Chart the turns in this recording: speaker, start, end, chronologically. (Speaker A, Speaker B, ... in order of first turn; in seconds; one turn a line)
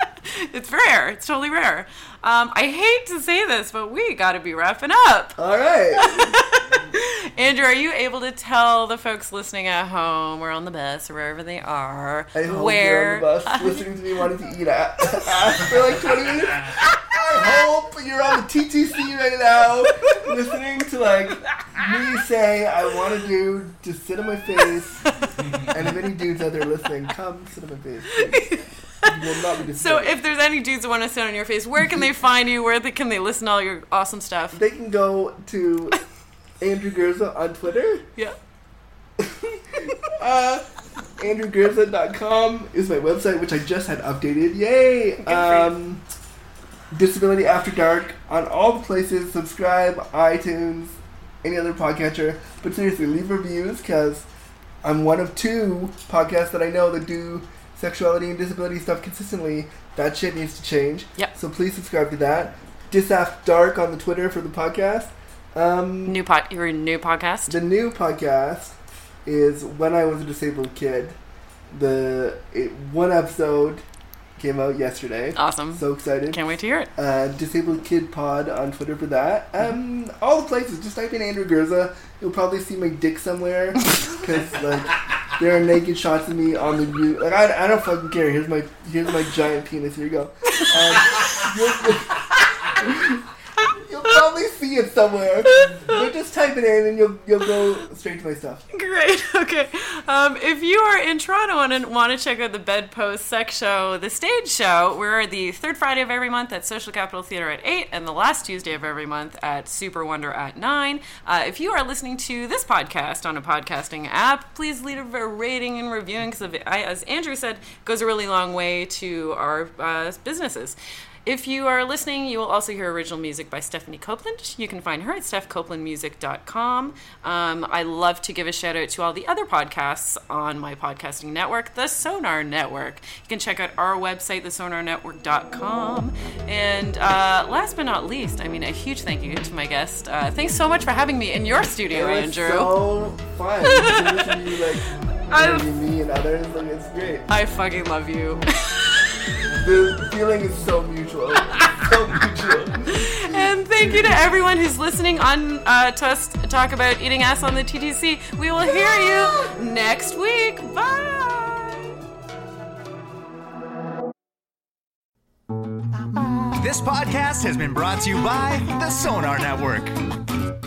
Speaker A: 0.2-5.4
Speaker B: 5.4-6.4
Speaker A: 6.0-13.8
Speaker B: 12.3-25.1
Speaker A: 20.0-20.4
Speaker A: 21.5-22.2
Speaker A: 25.1-25.6
Speaker B: 25.6-30.1
Speaker A: 28.1-29.2
Speaker A: 29.7-34.6
Speaker B: 31.8-32.1
Speaker B: 34.5-36.0
Speaker B: 36.6-38.1
Speaker B: 39.2-40.7
Speaker B: 41.2-46.0
Speaker A: 45.2-45.7
Speaker B: 46.9-54.3
Speaker B: 54.8-66.2
Speaker A: 66.0-67.6
Speaker B: 67.5-71.2
Speaker B: 71.7-73.8
Speaker B: 74.4-76.4
Speaker A: 75.3-76.9
Speaker B: 77.0-98.6
Speaker A: 90.5-91.3
Speaker A: 95.5-96.0
Speaker A: 98.7-142.8
Speaker B: 141.9-147.3
Speaker A: 143.6-144.5
Speaker A: 145.3-145.7
Speaker A: 147.3-149.3
Speaker B: 149.5-154.1
Speaker A: 152.9-161.9
Speaker C: 166.0-169.9